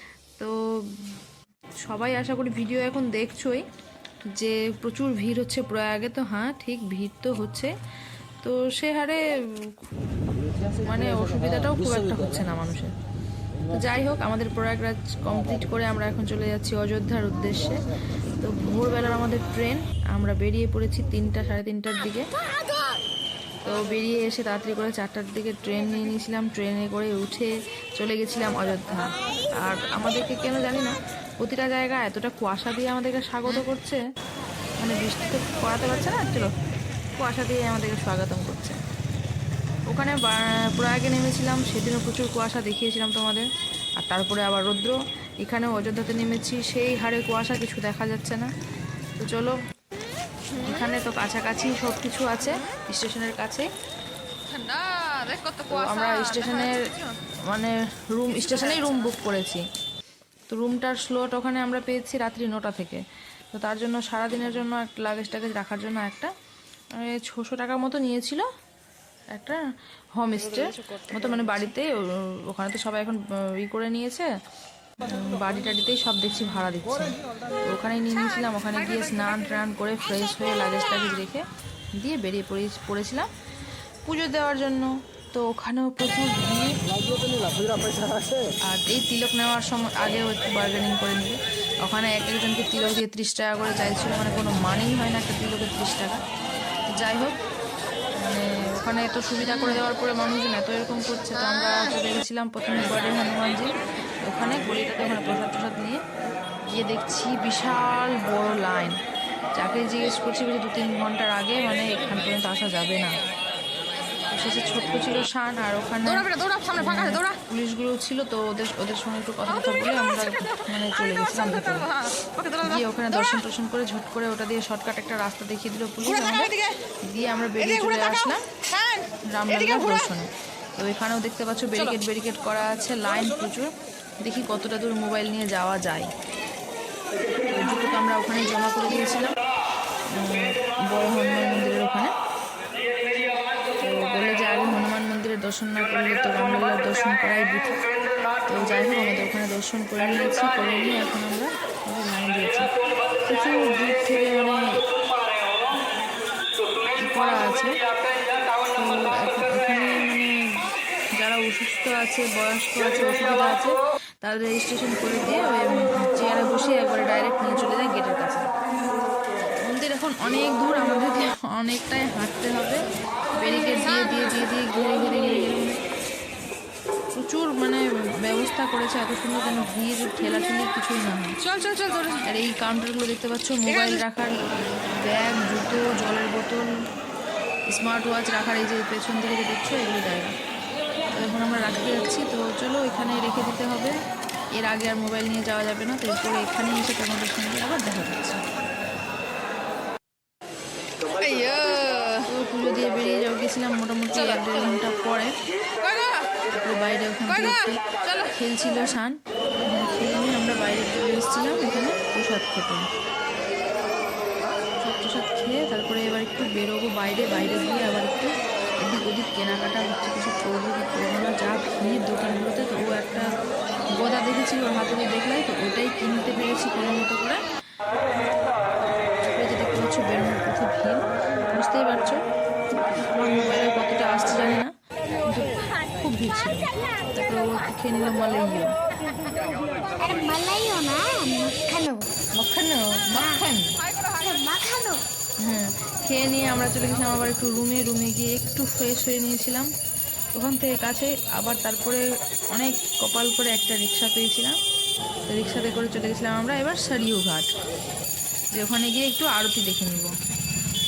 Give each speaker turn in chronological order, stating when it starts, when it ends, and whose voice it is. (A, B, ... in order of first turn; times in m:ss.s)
0:00.4-0:01.2 A
0:01.8-0:03.6 A
0:04.4-0:07.7 A
0:08.4-0:09.8 A
0:10.7-0:12.9 A
0:13.7-0:17.8 A
0:18.4-0:22.3 A
0:23.6-0:34.0 A
0:34.8-0:36.5 A
0:37.2-0:38.8 A
0:39.9-0:43.5 A
0:44.0-0:48.5 A
0:49.2-0:49.6 A
0:50.6-0:53.7 A
0:54.5-0:57.2 B
0:55.7-0:56.9 A
0:57.5-0:59.7 A
1:00.5-1:06.3 A
1:07.0-1:08.5 A
1:09.3-1:09.6 A
1:10.2-1:14.3 A
1:15.0-1:23.3 A
1:24.0-1:26.8 A
1:28.6-1:36.2 A
1:36.9-1:37.4 A
1:38.2-1:46.0 A
1:46.7-1:49.0 A
1:49.6-1:53.2 A
1:54.3-2:08.5 A
1:56.2-1:57.3 B
2:01.7-2:02.8 B
2:08.7-2:09.0 B
2:09.3-2:16.1 A
2:17.4-2:19.4 A
2:20.1-2:22.1 A
2:23.8-2:27.9 A
2:28.5-2:32.7 A
2:33.2-2:34.8 A
2:37.0-2:37.8 A
2:38.7-2:40.3 A
2:41.2-2:48.5 A
2:49.6-2:52.8 A
2:53.4-2:55.8 A
2:57.2-3:01.4 A
3:01.5-3:02.2 B
3:02.2-3:06.7 A
3:07.7-3:10.4 A
3:11.2-3:14.0 A
3:14.6-3:18.4 A
3:21.1-3:22.2 B
3:22.2-3:25.4 A
3:25.9-3:26.2 B
3:26.5-3:32.9 A
3:34.8-3:38.3 A
3:38.8-3:43.3 A
3:44.0-3:47.4 A
3:49.2-3:52.2 A
3:53.1-3:58.8 A
4:00.0-4:02.1 C
4:02.4-4:03.8 A
4:03.2-4:03.4 C
4:04.1-4:05.0 C
4:05.4-4:09.7 A
4:10.4-4:14.6 A
4:15.3-4:17.5 A
4:18.5-4:20.2 A